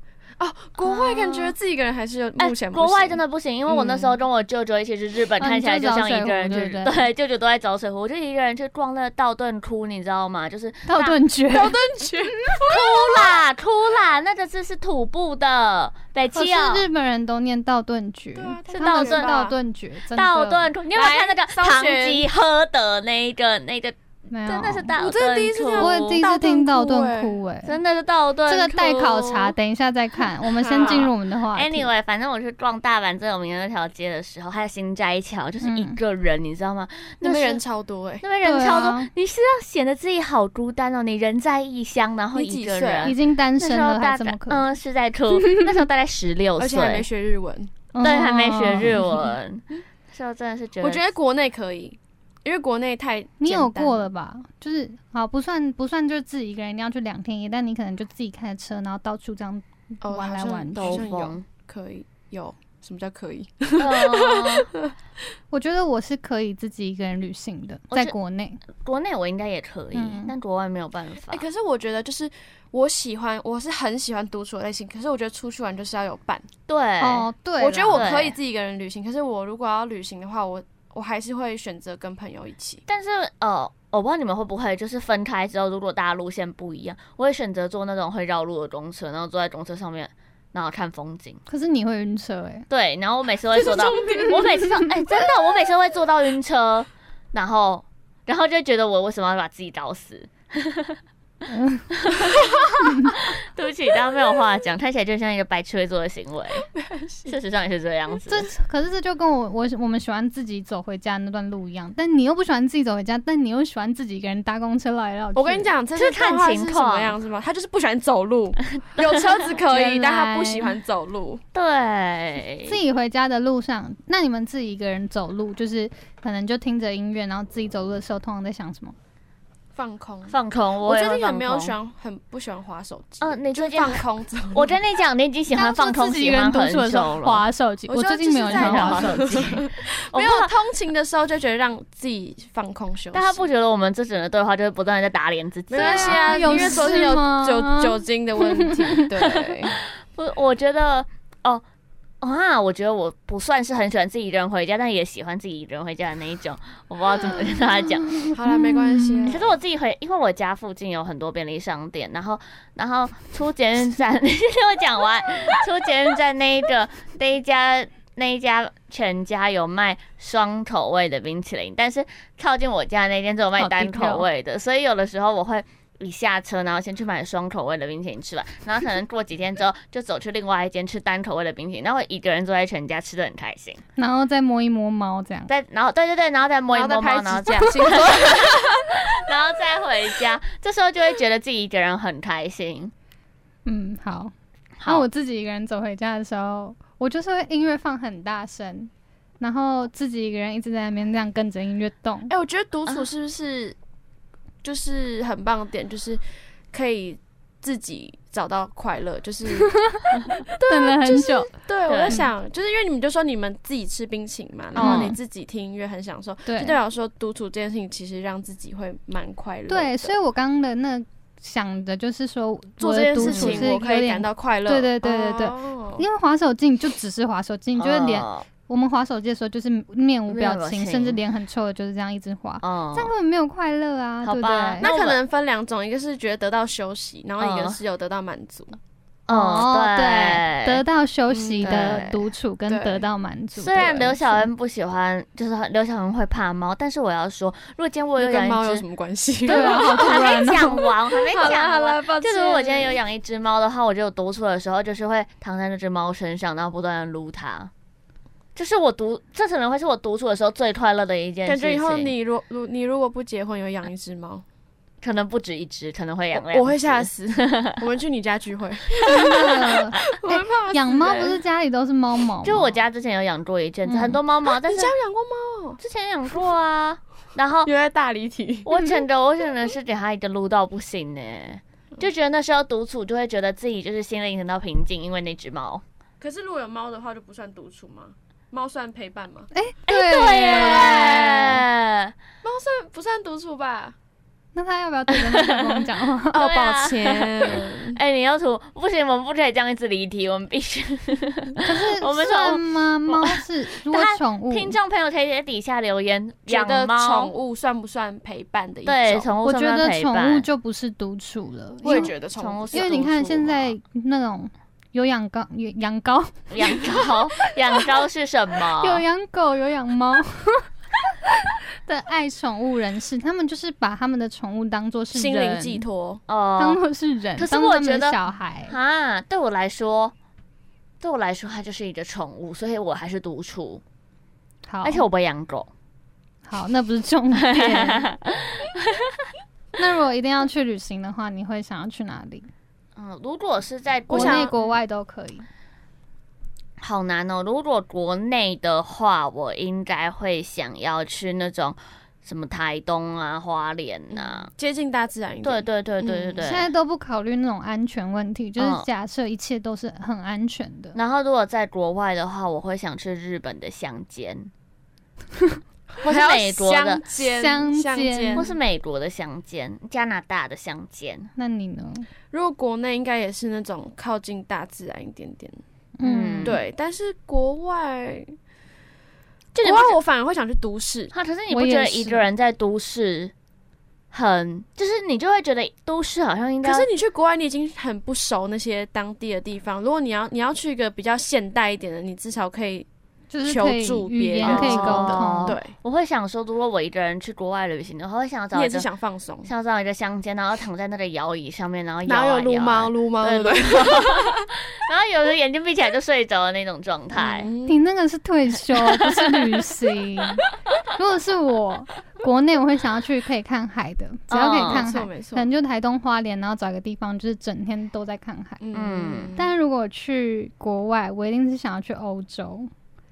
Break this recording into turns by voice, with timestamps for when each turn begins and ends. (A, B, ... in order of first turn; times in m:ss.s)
0:00.4-0:04.1 A
0:00.8-0:01.5 B
0:02.4-0:11.2 B
0:05.4-0:07.0 C
0:10.9-0:11.7 C
0:11.5-0:13.4 A
0:12.6-0:16.8 B
0:16.3-0:20.7 C
0:18.4-0:19.5 A
0:18.7-0:19.3 B
0:20.1-0:23.9 B
0:20.9-0:22.2 A
0:24.3-0:24.9 C
0:24.4-0:26.2 B
0:24.9-0:27.4 A
0:25.8-0:27.8 C
0:27.6-0:29.5 B
0:28.5-0:31.9 C
0:30.5-0:31.1 A
0:30.7-0:37.6 B
0:35.6-0:36.0 C
0:37.2-0:38.2 A
0:38.2-0:47.0 B
0:38.4-0:39.1 C
0:42.3-0:43.1 A
0:43.0-0:44.7 C
0:45.4-0:45.7 C
0:46.6-0:47.7 A
0:47.9-0:49.3 C
0:48.0-0:51.1 B
0:50.8-0:54.0 A
0:53.4-1:01.0 C
1:00.0-1:04.9 A
1:00.8-1:01.4 B
1:03.8-1:04.7 B
1:05.5-1:08.6 C
1:08.8-1:11.4 B
1:09.9-1:10.3 C
1:11.3-1:16.5 A
1:16.7-1:17.3 B
1:17.0-1:18.1 C
1:17.6-1:22.8 A
1:17.9-1:18.4 B
1:22.9-1:31.4 B
1:31.5-1:32.6 C
1:32.7-1:41.0 B
1:33.5-1:34.6 A
1:41.5-1:41.9 C
1:42.0-1:46.6 B
1:42.8-1:43.2 C
1:46.7-1:47.3 A
1:47.2-1:48.5 B
1:48.3-1:55.7 C
1:55.3-2:01.4 A
1:55.9-1:57.2 B
1:59.6-2:00.7 C
2:01.5-2:02.8 B
2:02.6-2:08.9 C
2:09.7-2:14.7 A
2:10.3-2:11.8 B
2:13.2-2:17.4 B
2:15.5-2:19.6 C
2:17.9-2:23.5 A
2:18.5-2:20.5 B
2:23.1-2:27.0 B
2:25.7-2:29.8 A
2:25.7-2:28.0 C
2:28.6-2:28.9 C
2:29.3-2:31.6 B
2:32.2-2:38.3 B
2:38.3-2:39.5 A
2:38.5-2:39.4 C
2:39.2-3:03.8 B
2:53.6-2:54.2 C
3:04.0-3:05.5 C
3:05.5-3:12.9 B
3:06.7-3:08.9 A
3:13.6-3:14.3 C
3:14.8-3:15.0 B
3:14.8-3:22.3 C
3:22.3-3:23.8 A
3:24.6-3:29.8 A
3:30.5-3:40.2 A
3:30.7-3:31.5 C
3:31.9-3:32.2 B
3:34.7-3:35.1 B
3:34.7-3:35.2 C
3:36.4-3:36.8 C
3:39.7-3:54.9 C
3:42.8-3:46.0 A
3:43.1-3:43.7 B
3:47.8-3:48.5 B
3:50.3-3:51.2 B
3:52.6-3:53.1 B
3:54.2-3:55.2 B
3:54.8-3:58.8 A
3:57.4-3:57.8 B
3:59.3-4:04.4 C
3:59.3-4:00.8 B
4:01.3-4:02.1 A
4:01.6-4:02.1 B
4:02.7-4:03.0 A
4:03.6-4:08.8 B
4:08.2-4:13.0 A
4:09.4-4:17.7 B
4:09.4-4:10.8 C
4:18.6-4:22.1 B
4:21.4-4:24.4 A
4:25.0-4:27.7 B
4:26.4-4:31.4 A
4:29.0-4:29.4 B
4:29.0-4:32.7 C
4:31.0-4:31.3 B
4:32.4-4:34.9 B
4:33.8-4:34.2 C
4:34.6-4:35.8 A
4:35.8-4:37.7 B
4:37.6-4:38.7 A
4:38.6-4:45.8 B
4:46.2-4:49.5 A
4:49.5-4:51.6 C
4:49.9-4:52.1 B
4:50.5-4:51.4 A
4:52.4-4:54.0 A
4:54.5-4:56.4 C
4:55.1-5:07.3 B
4:56.3-4:58.0 A
5:01.6-5:04.7 C
5:06.5-5:09.3 A
5:08.8-5:10.4 B
5:09.4-5:12.1 C
5:11.8-5:13.1 A
5:11.8-5:13.7 B
5:12.7-5:16.8 C
5:16.5-5:19.0 B
5:18.8-5:20.6 C
5:21.8-5:25.8 C
5:25.1-5:26.2 A
5:26.3-5:26.8 B
5:26.6-5:28.7 C
5:27.4-5:28.2 B
5:28.7-5:30.1 B
5:31.0-5:33.8 B
5:34.7-5:35.0 C
5:34.8-5:35.7 B
5:36.5-5:38.1 C
5:37.4-5:38.9 B
5:39.8-5:42.5 C
5:43.0-5:44.5 B
5:44.1-5:44.7 A
5:44.1-5:45.5 C
5:46.8-5:54.5 B
5:54.1-5:56.4 A
5:55.4-5:56.7 B
5:56.4-6:01.0 C
5:58.6-5:58.8 B
6:00.9-6:04.5 B
6:05.9-6:08.5 A
6:06.0-6:07.0 B
6:07.2-6:08.5 C
6:08.4-6:11.3 B
6:11.4-6:12.1 C
6:12.3-6:15.6 A
6:16.0-6:16.6 C
6:16.0-6:16.6 B
6:16.4-6:18.3 A
6:19.5-6:20.0 B
6:19.6-6:21.1 A
6:21.1-6:23.3 B
6:21.5-6:22.2 C
6:24.1-6:26.9 B
6:26.6-6:32.8 A
6:33.3-6:35.6 C
6:33.4-6:35.7 A
6:34.4-6:38.9 B
6:38.5-6:39.5 A
6:39.4-6:47.5 B
6:42.0-6:44.4 A
6:47.1-6:47.8 A
6:47.6-6:50.4 C
6:51.0-6:58.6 C
6:54.3-6:54.9 B
6:54.7-6:55.5 A
6:58.6-6:59.5 A
6:58.7-6:59.3 B
6:59.4-7:02.7 C